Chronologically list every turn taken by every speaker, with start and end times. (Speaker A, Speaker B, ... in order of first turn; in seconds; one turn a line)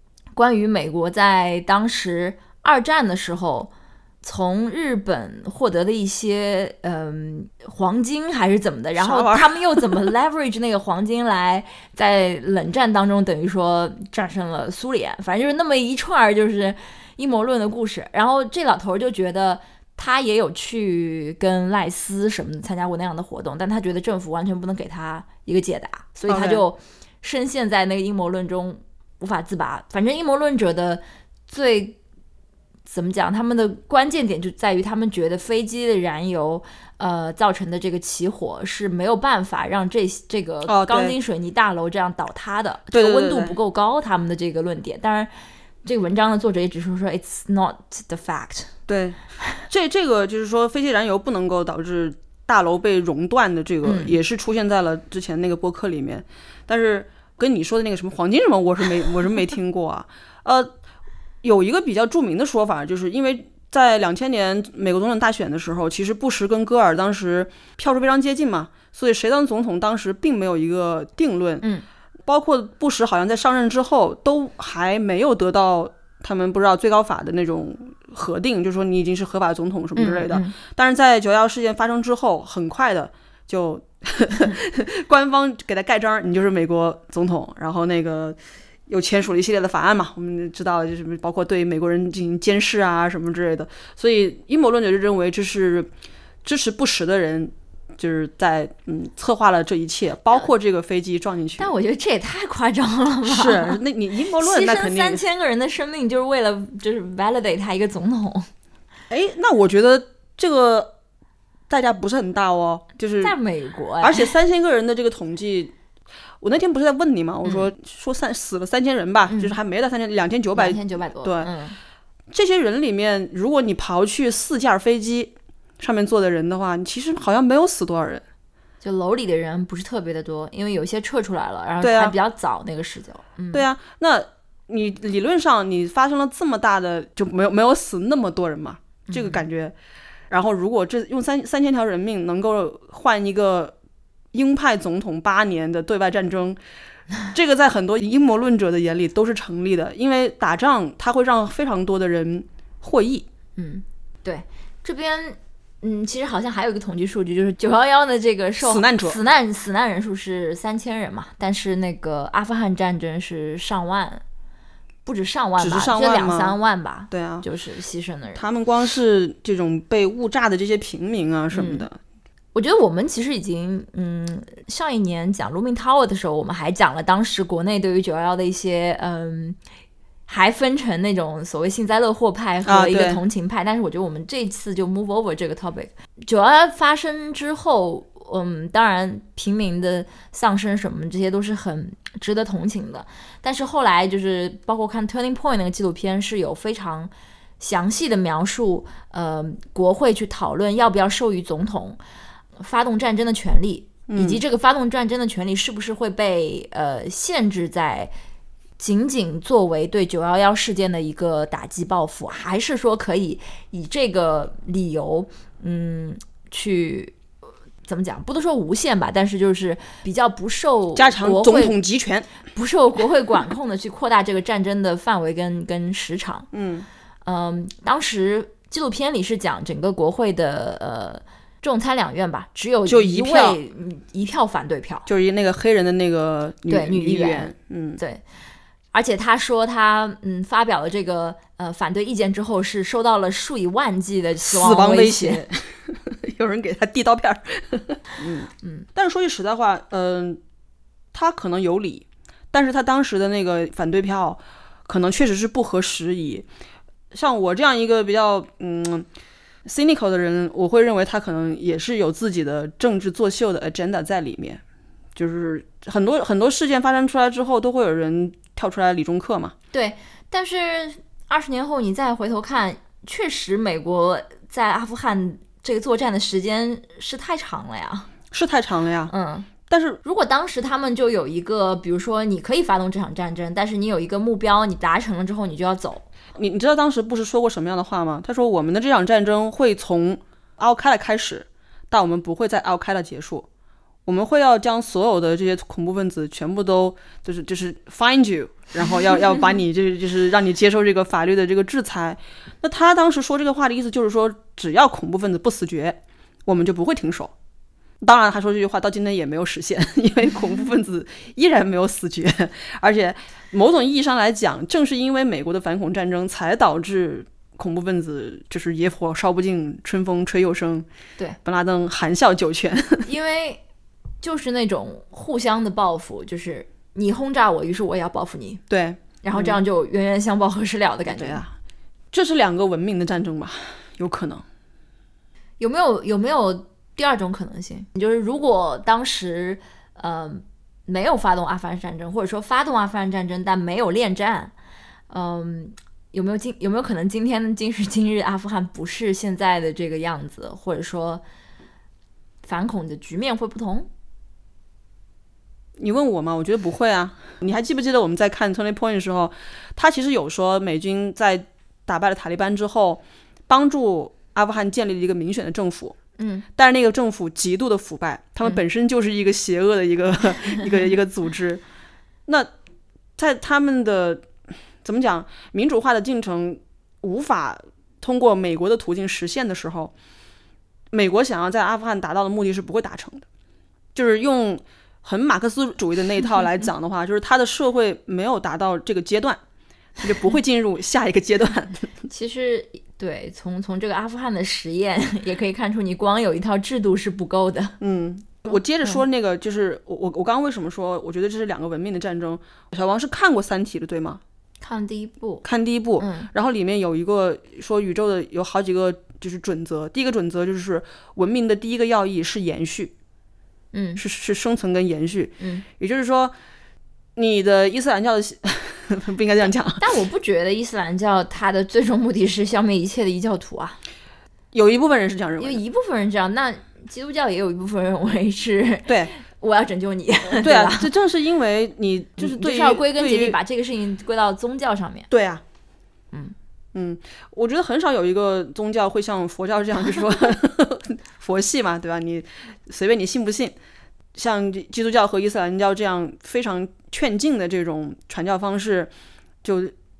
Speaker A: 0.3-32.0
Speaker B: 8.9-10.1
Speaker B: 26.3-26.6
Speaker A: 32.9-45.3
Speaker B: 40.6-41.1
Speaker B: 42.9-43.6
Speaker A: 45.8-48.7
Speaker B: 48.9-49.2
Speaker B: 49.7-60.7
Speaker A: 53.8-54.2
Speaker B: 61.4-71.6
Speaker B: 72.2-95.9
Speaker A: 80.0-80.5
Speaker B: 96.4-101.7
Speaker A: 101.6-103.8
Speaker B: 103.2-105.2
Speaker A: 104.4-108.5
Speaker B: 109.1-110.9
Speaker B: 111.7-113.3
Speaker A: 113.2-114.3
Speaker B: 114.0-115.7
Speaker B: 116.4-121.5
Speaker A: 119.3-119.5
Speaker A: 120.5-121.8
Speaker B: 122.3-128.2
Speaker A: 128.8-133.7
Speaker B: 131.8-132.1
Speaker B: 133.5-139.7
Speaker A: 139.1-139.4
Speaker B: 140.3-143.7
Speaker B: 144.3-146.6
Speaker B: 147.3-153.2
Speaker A: 153.6-164.2
Speaker B: 158.6-159.2
Speaker A: 165.0-168.4
Speaker B: 165.6-166.6
Speaker B: 167.1-167.4
Speaker B: 168.3-172.0
Speaker A: 171.5-171.9
Speaker A: 172.5-179.6
Speaker A: 180.3-202.0
Speaker B: 182.7-183.2
Speaker A: 202.6-208.1
Speaker B: 204.1-204.4
Speaker A: 208.8-217.2
Speaker A: 217.8-221.8
Speaker B: 220.9-222.3
Speaker A: 222.5-226.5
Speaker B: 226.5-226.9
Speaker A: 227.2-235.1
Speaker B: 232.9-233.6
Speaker B: 235.1-238.0
Speaker A: 236.7-238.2
Speaker A: 238.9-245.5
Speaker B: 244.4-250.4
Speaker A: 248.6-248.9
Speaker B: 251.1-256.5
Speaker B: 257.1-259.1
Speaker B: 259.6-264.6
Speaker B: 265.1-269.5
Speaker A: 269.7-278.1
Speaker B: 278.3-279.1
Speaker A: 279.1-279.5
Speaker B: 279.7-280.0
Speaker A: 280.0-286.0
Speaker B: 286.4-293.5
Speaker B: 294.1-307.3
Speaker B: 308.0-320.9
Speaker B: 321.4-323.1
Speaker A: 323.0-323.6
Speaker A: 324.2-328.6
Speaker B: 328.7-329.6
Speaker A: 329.2-331.4
Speaker B: 331.1-331.5
Speaker B: 332.1-334.4
Speaker A: 335.6-344.5
Speaker A: 345.1-351.2
Speaker A: 352.4-353.9
Speaker B: 355.8-365.9
Speaker A: 366.2-366.4
Speaker B: 366.6-371.6
Speaker B: 373.2-374.3
Speaker B: 374.8-379.9
Speaker B: 380.9-383.2
Speaker B: 383.9-389.4
Speaker B: 390.0-392.1
Speaker A: 392.1-397.8
Speaker B: 397.8-404.2
Speaker A: 398.5-399.0
Speaker A: 404.6-405.4
Speaker B: 405.4-412.9
Speaker A: 406.0-406.3
Speaker A: 413.7-414.0
Speaker B: 414.0-416.3
Speaker A: 415.4-415.6
Speaker B: 417.1-419.8
Speaker A: 419.8-423.8
Speaker B: 424.5-425.6
Speaker A: 425.4-430.9
Speaker B: 428.9-429.1
Speaker B: 430.3-433.4
Speaker A: 432.2-435.1
Speaker B: 435.1-435.4
Speaker B: 436.7-443.6
Speaker B: 444.1-448.9
Speaker B: 449.4-449.7